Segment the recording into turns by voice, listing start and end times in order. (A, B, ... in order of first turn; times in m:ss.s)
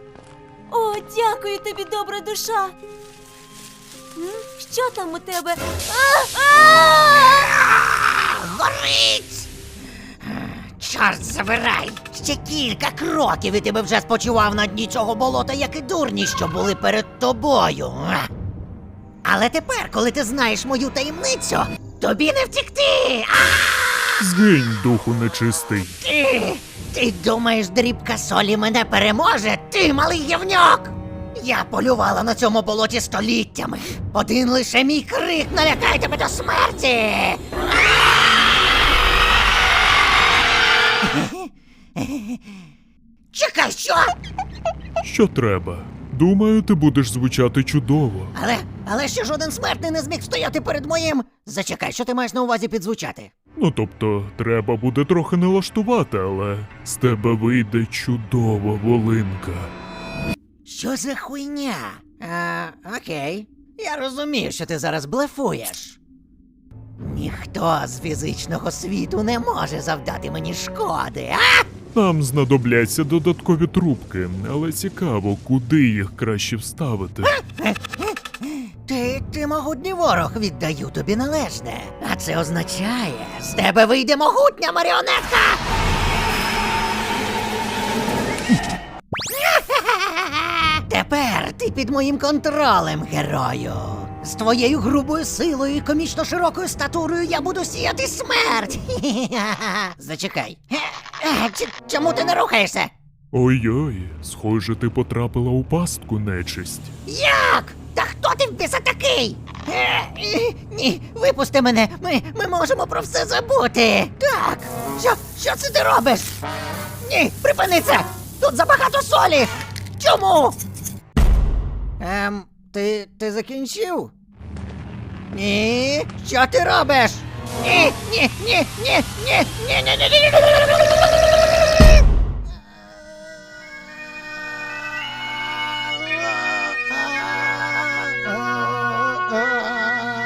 0:00.7-0:02.8 A
0:04.2-0:07.5 A
0:07.5-0:09.5 B
0:10.2-0:18.3 B
0:19.2-0:24.1 B
0:24.2-0:26.0 C
0:26.0-0:37.5 B
0:41.0-0:42.5 B
0:43.3-0:44.1 B
0:45.0-0:48.3 C
0:48.3-0:53.3 B
0:53.6-0:59.7 C
1:00.7-1:06.0 B
1:07.0-1:11.7 B
1:11.9-1:17.4 C
1:17.2-1:25.6 B
1:29.3-1:42.9 B
1:43.3-1:46.9 C
1:47.1-1:56.4 B
1:57.0-2:00.6 B
2:02.0-2:04.1 B
2:05.3-2:10.8 B
2:16.4-2:18.3 B